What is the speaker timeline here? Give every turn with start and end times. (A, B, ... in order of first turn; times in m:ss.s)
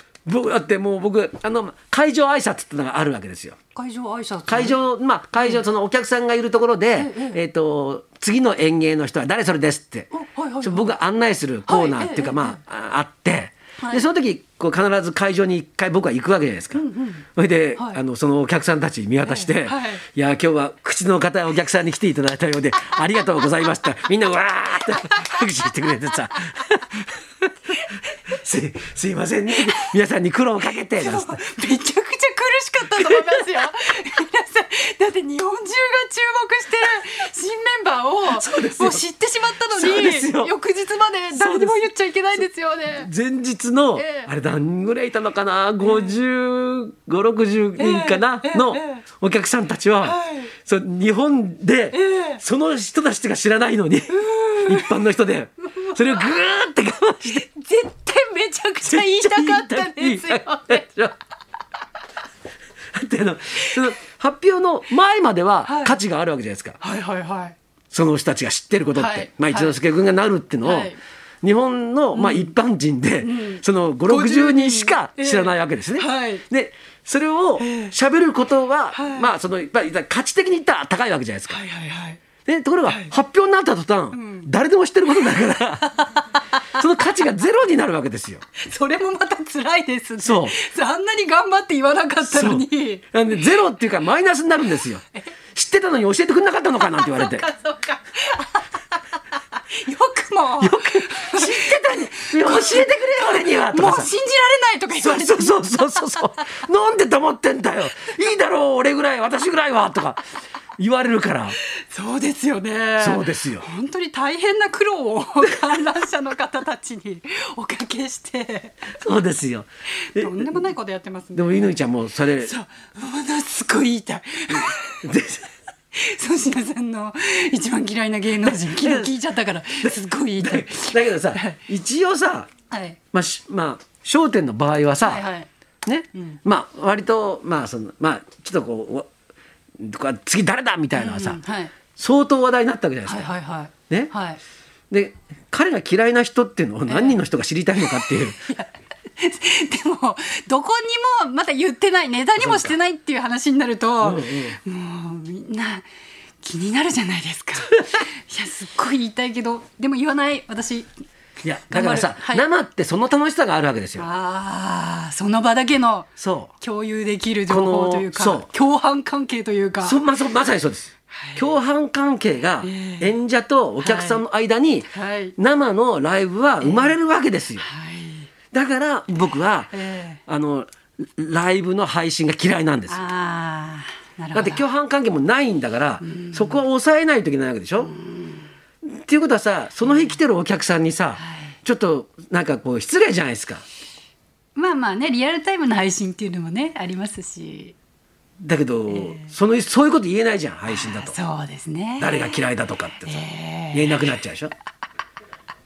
0:00.3-0:03.6 A
0:03.8-0:04.8 B
0:04.5-0:16.8 A
0:07.0-0:07.4 B
0:10.1-0:10.9 B
0:11.7-0:12.6 B
0:13.8-0:14.0 B
0:16.7-0:18.0 B
0:17.4-0:31.4 A
0:19.2-0:20.0 B
0:25.1-0:25.7 B
0:27.9-0:28.2 B
0:31.0-0:43.1 B
0:33.0-0:33.2 A
0:38.3-0:39.0 A
0:39.7-0:40.5 A
0:41.3-0:41.9 A
0:42.4-0:57.4 A
0:44.0-0:44.3 B
0:45.8-0:46.2 B
0:47.8-0:49.0 B
0:50.0-0:50.5 B
0:51.9-0:52.4 B
0:54.1-0:55.0 B
0:55.8-0:56.3 B
0:57.3-1:00.9 B
0:58.8-1:01.2 A
1:02.9-1:06.8 A
1:05.6-1:06.0 B
1:06.8-1:07.6 B
1:07.9-1:21.6 A
1:08.9-1:09.8 B
1:10.6-1:11.0 B
1:12.1-1:12.5 B
1:13.2-1:16.4 B
1:17.6-1:17.9 B
1:19.0-1:19.3 B
1:21.5-1:22.2 B
1:22.4-1:25.9 A
1:22.9-1:23.1 B
1:24.1-1:24.5 B
1:25.1-1:26.8 B
1:26.7-1:28.5 A
1:28.6-1:33.5 B
1:30.2-1:30.6 A
1:32.2-1:37.4 A
1:36.8-1:39.0 B
1:39.6-1:46.6 B
1:40.6-1:44.1 A
1:45.0-1:50.2 A
1:50.8-1:51.6 A
1:51.6-1:58.9 B
1:53.0-1:53.7 A
1:58.9-2:00.5 A
2:00.0-2:01.7 B
2:01.4-2:02.5 A
2:02.4-2:05.0 B
2:04.6-2:05.5 A
2:05.9-2:11.6 B
2:08.4-2:09.1 A
2:09.8-2:12.5 A
2:12.7-2:13.0 B
2:13.1-2:15.3 A
2:15.0-2:15.5 B
2:15.8-2:19.1 A
2:19.8-2:21.4 A
2:20.9-2:21.7 B
2:22.0-2:23.3 A
2:23.1-2:24.4 B
2:24.9-2:28.5 A
2:26.9-2:27.2 B
2:27.8-2:35.9 B
2:32.4-2:32.8 A
2:34.0-2:34.6 A
2:36.4-2:40.9 B
2:41.4-2:44.1 A
2:41.7-2:42.4 B
2:44.0-2:50.0 B
2:46.2-2:46.5 A
2:47.5-2:48.5 A
2:49.8-2:57.7 A
2:51.1-2:51.5 B
2:52.6-2:53.1 B
2:53.8-2:54.2 B
2:54.9-2:55.4 B
2:56.6-2:56.9 B
2:57.6-2:58.3 B
2:58.5-2:59.7 A
2:59.7-3:00.2 B
3:00.3-3:03.0 A
3:02.9-3:04.6 B
3:04.3-3:07.9 A
3:06.0-3:06.6 B
3:07.8-3:08.5 B
3:08.8-3:13.6 A
3:09.8-3:10.2 B
3:11.2-3:11.6 B
3:14.6-3:17.7 B
3:18.4-3:21.2 A
3:18.9-3:19.3 B
3:20.7-3:22.4 B
3:22.0-3:24.5 A
3:23.0-3:24.2 B